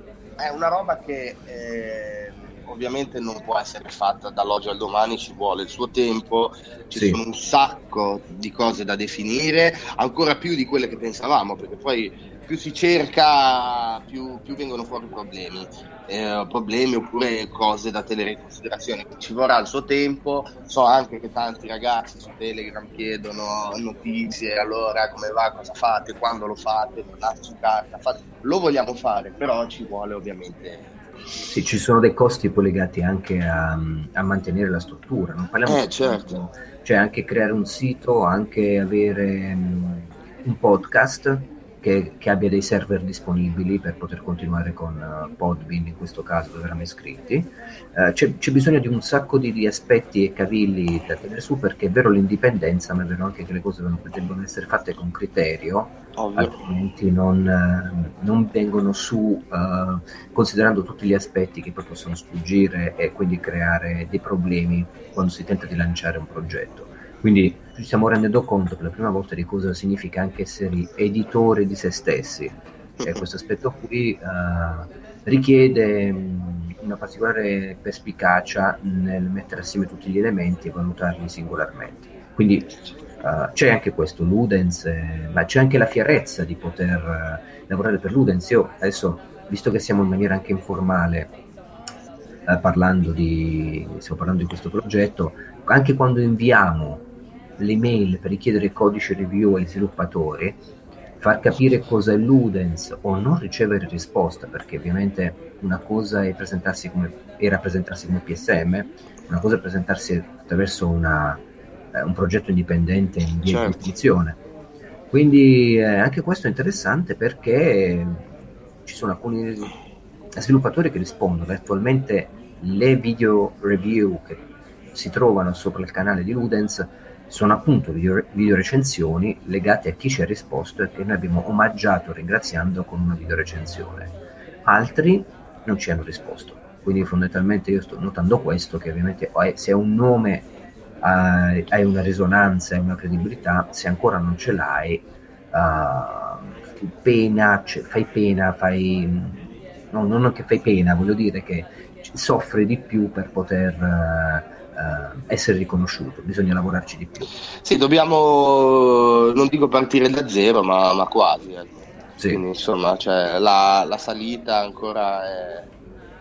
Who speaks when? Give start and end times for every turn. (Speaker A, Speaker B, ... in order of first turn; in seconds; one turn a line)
Speaker A: 0.4-30.9
Speaker B: 6.9-7.2
Speaker B: 31.5-82.7
Speaker A: 35.7-36.4
Speaker A: 56.2-56.5
Speaker B: 83.2-91.3
Speaker B: 92.5-97.0
Speaker B: 97.6-100.6
Speaker B: 101.2-114.4
Speaker A: 113.4-113.8
Speaker B: 115.1-118.3
Speaker B: 118.8-119.7
Speaker B: 120.4-124.4
Speaker B: 124.9-134.1
Speaker B: 134.7-140.5
Speaker B: 141.0-157.3
Speaker A: 157.7-165.7